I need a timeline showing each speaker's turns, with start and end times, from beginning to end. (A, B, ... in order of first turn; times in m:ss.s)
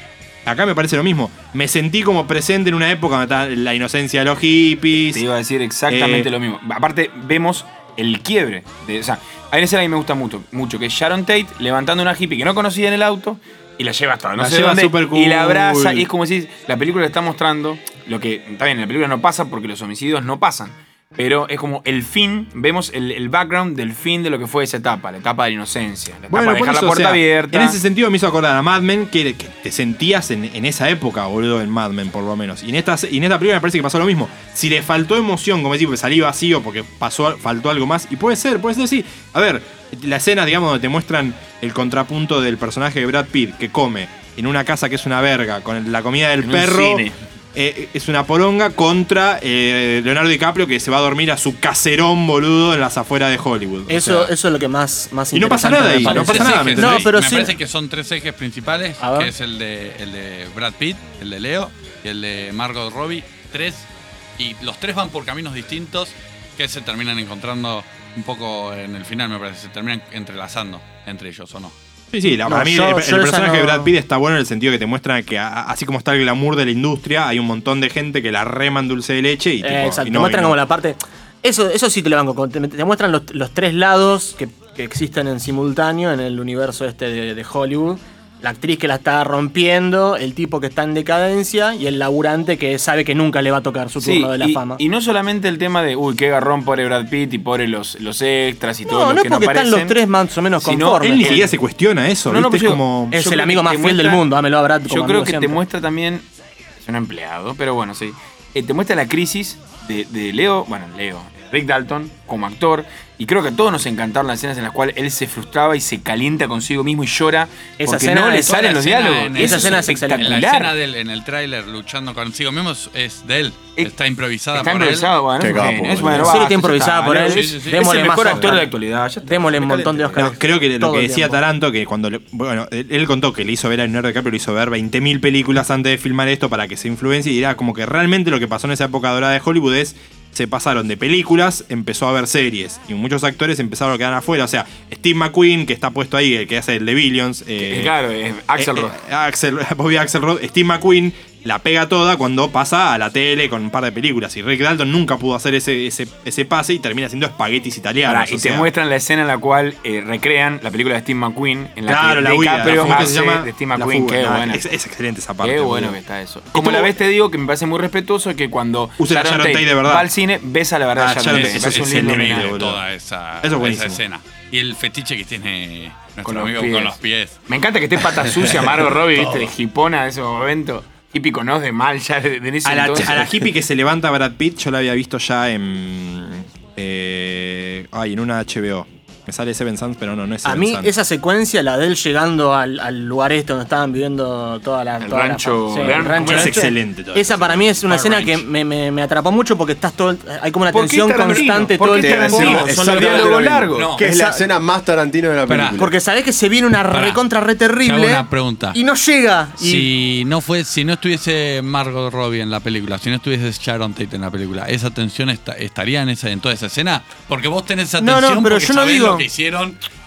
0:00.4-0:05.2 A
0:05.1-0:27.8 B
0:05.9-0:06.3 A
0:14.4-0:16.1 A
0:26.3-0:54.3 A
0:46.4-0:47.2 B
0:53.9-0:57.5 C
0:55.3-0:57.1 A
0:56.0-1:03.9 D
0:59.0-0:59.3 C
1:04.4-1:11.8 D
1:12.1-1:20.6 A
1:12.5-1:13.9 C
1:19.6-1:34.8 C
1:34.0-1:40.0 B
1:38.9-1:41.4 C
1:40.6-1:41.5 B
1:41.0-1:43.2 A
1:42.3-1:44.2 B
1:43.1-1:45.6 C
1:44.9-1:46.3 B
1:46.8-2:00.7 B
1:57.8-1:58.7 C
1:58.5-2:05.1 D
1:59.4-2:00.4 C
2:04.5-2:10.2 B
2:05.4-2:06.4 E
2:06.2-2:08.7 C
2:07.2-2:08.5 D
2:09.2-2:11.4 C
2:10.2-2:28.0 A
2:27.6-2:29.0 B
2:28.6-2:38.7 A
2:38.1-2:44.6 B
2:41.9-2:46.0 A
2:42.6-2:43.1 D
2:45.4-2:52.6 B
2:46.5-2:46.9 A
2:49.0-2:50.1 A
2:51.0-2:52.8 A
2:51.3-2:57.4 D
2:53.4-2:54.0 A
2:56.2-2:57.0 B
2:57.5-3:03.4 B
2:58.2-2:59.5 D
3:02.6-3:10.9 A
3:10.4-3:23.3 C
3:15.0-3:16.7 B
3:16.2-3:17.6 A
3:17.9-3:18.4 D
3:20.7-3:24.0 B
3:22.0-3:25.9 E
3:23.7-3:24.0 D
3:24.0-3:24.4 C
3:25.5-3:25.8 D
3:25.8-3:29.9 C
3:26.9-3:27.2 D
3:27.8-3:28.8 D
3:29.6-3:39.8 D
3:38.0-3:39.3 C